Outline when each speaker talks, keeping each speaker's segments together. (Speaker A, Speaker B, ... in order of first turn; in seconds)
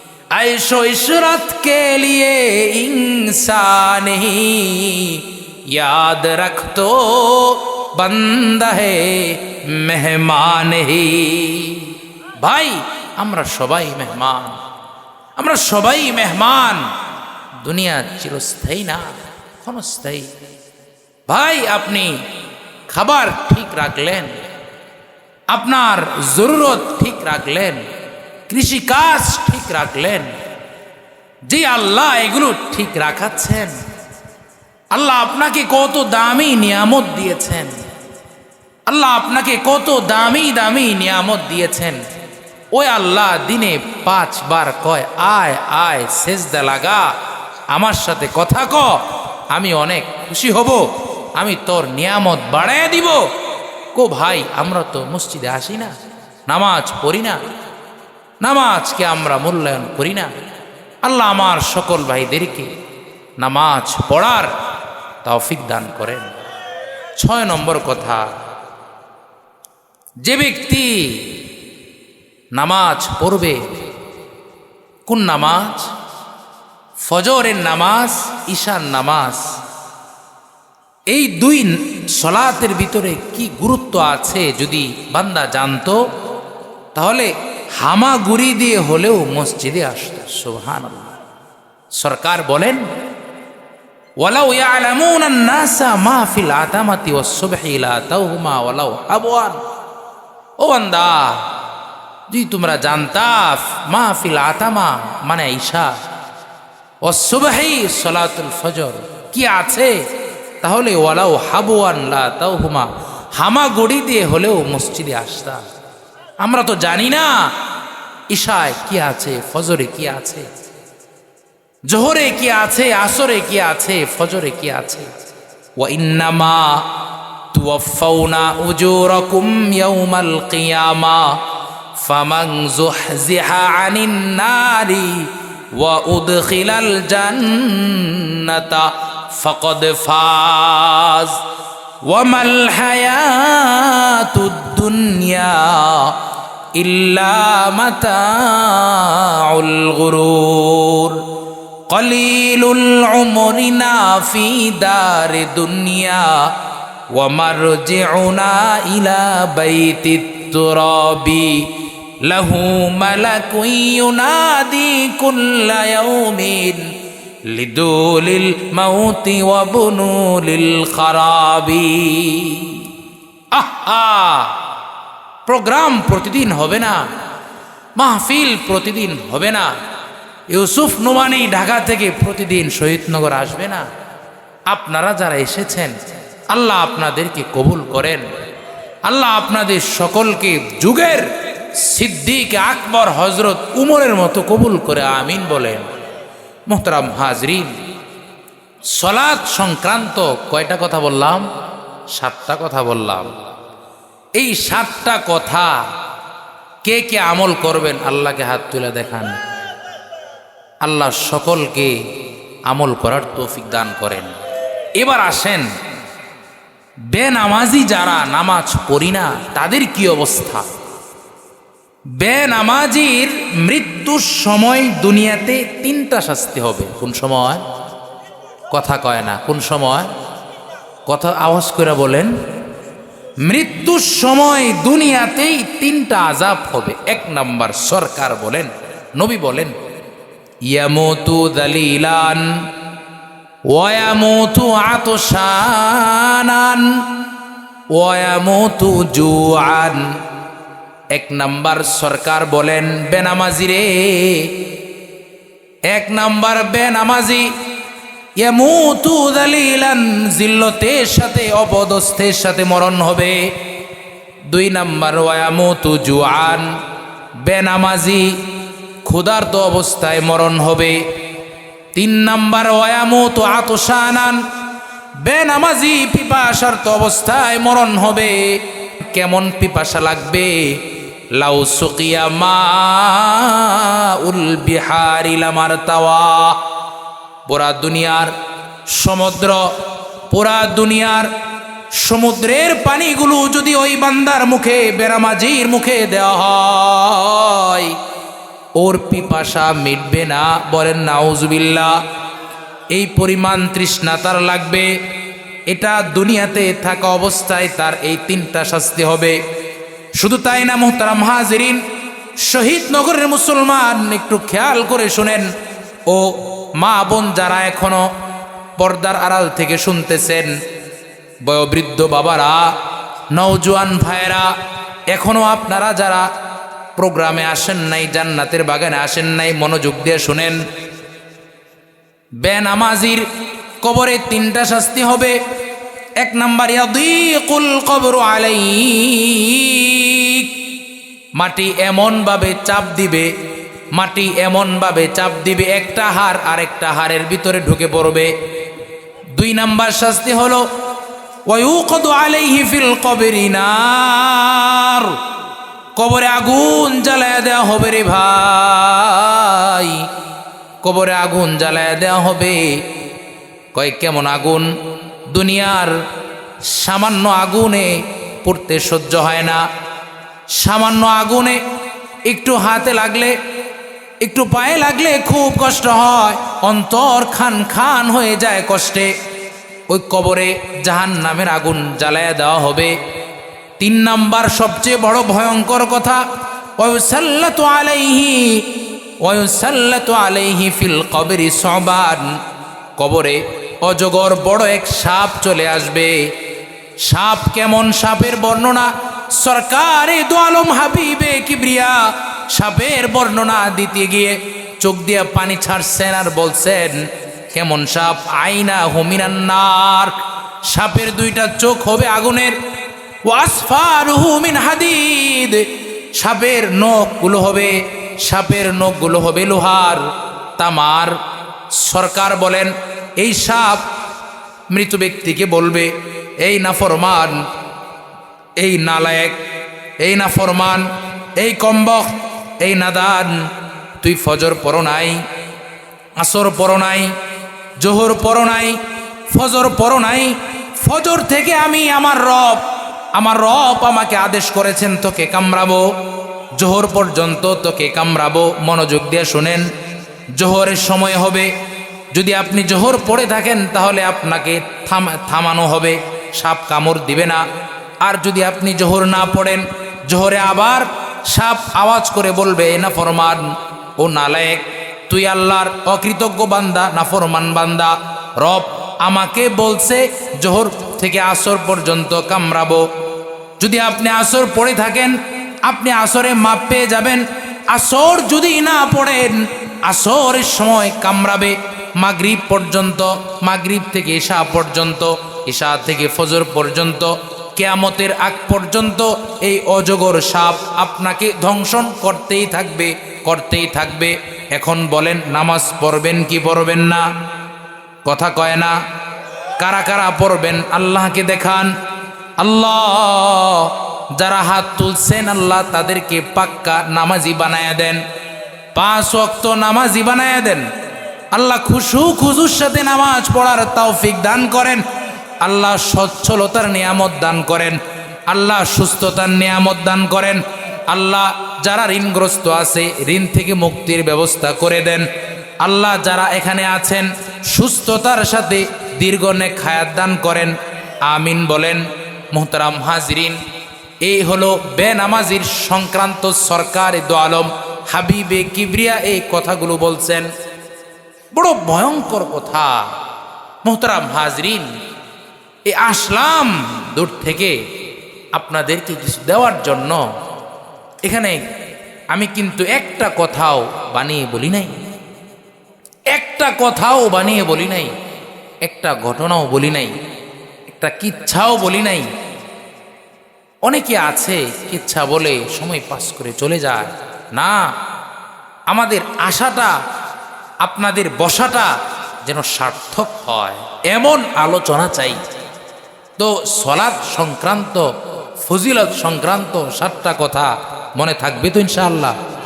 Speaker A: 0.3-14.6, 15.4-16.9, 17.6-19.0, 19.6-20.3, 21.3-22.2, 22.9-24.3, 25.5-27.9, 28.5-30.3, 31.5-33.7, 34.9-37.7, 38.9-42.0, 42.7-47.1, 47.7-49.0, 49.5-53.2, 53.9-55.9, 56.5-57.4, 58.4-60.3, 61.0-62.7, 63.4-64.5, 65.2-66.3, 67.2-68.2, 70.2-71.3, 72.5-73.6, 75.1-75.9, 77.0-79.5, 81.1-86.0, 86.9-91.1, 92.0-92.8, 94.2-99.6, 100.6-101.4, 102.3-105.9, 107.0-109.9, 110.6-115.6, 116.4-117.4, 118.3-120.5, 121.9-125.1, 125.8-126.8, 127.5-131.3, 132.0-141.4, 142.1-146.1, 146.7-151.2, 151.9-156.4, 157.1-161.6, 162.2-166.8, 167.5-172.8, 173.5-174.6, 175.4-177.0, 178.0-179.7, 180.5-183.8, 184.7-185.9, 186.5-188.2, 189.0-195.9, 196.7-197.7, 199.0-201.4, 202.1-203.4, 204.3-205.8, 206.8-209.3, 210.8-211.9, 212.7-214.3, 215.0-215.7, 217.1-220.7, 222.2-227.6, 228.7-230.1, 231.1-232.3, 233.4-239.8, 240.7-242.6, 243.7-247.0, 247.9-250.1, 251.1-254.5, 255.9-257.5, 258.4-263.4, 264.5-266.7, 267.4-268.3, 269.0-271.0, 271.9-274.4, 275.2-280.7, 281.3-286.6, 287.5-288.3, 288.9-289.6, 290.3-291.3, 292.0-297.9, 298.8-301.9, 302.9-304.9, 305.7-309.4, 310.2-311.8, 312.4-315.5, 316.1-318.1, 318.8-320.5, 321.4-322.7, 323.3-324.5, 325.1-326.2, 326.9-330.6, 332.4-333.2, 333.8-335.4, 336.2-340.5, 341.4-343.3, 343.9-348.3, 349.3-350.6, 351.5-355.2, 356.0-360.1, 360.8-362.7, 363.7-364.7, 365.3-365.9, 366.7-369.6, 370.5-371.6, 372.3-373.3, 374.2-379.1, 379.9-382.9, 383.8-386.2, 386.8-388.6, 389.2-392.3, 393.0-396.2, 397.0-412.6, 413.3-415.6, 416.2-420.1, 420.6-421.2, 421.8-423.9, 424.7-427.4, 428.6-429.4, 430.0-433.4, 434.0-435.2, 436.2-437.1, 437.8-438.8, 439.3-445.8, 446.6-449.7, 450.4-451.5, 452.1-457.4, 458.0-472.8, 473.6-497.0, 498.1-498.8, 499.6-501.7, 502.4-508.0, 508.7-510.6, 511.3-514.8, 515.4-525.1, 525.6-533.4, 534.0-540.3, 541.3-542.9, 543.6-544.7, 545.6-547.5, 548.3-550.0, 551.0-551.4, 552.1-554.8, 556.1-557.9, 558.6-559.9, 560.7-562.1, 563.6-567.7, 568.7-569.8, 570.6-575.2, 576.2-577.9, 578.4-582.2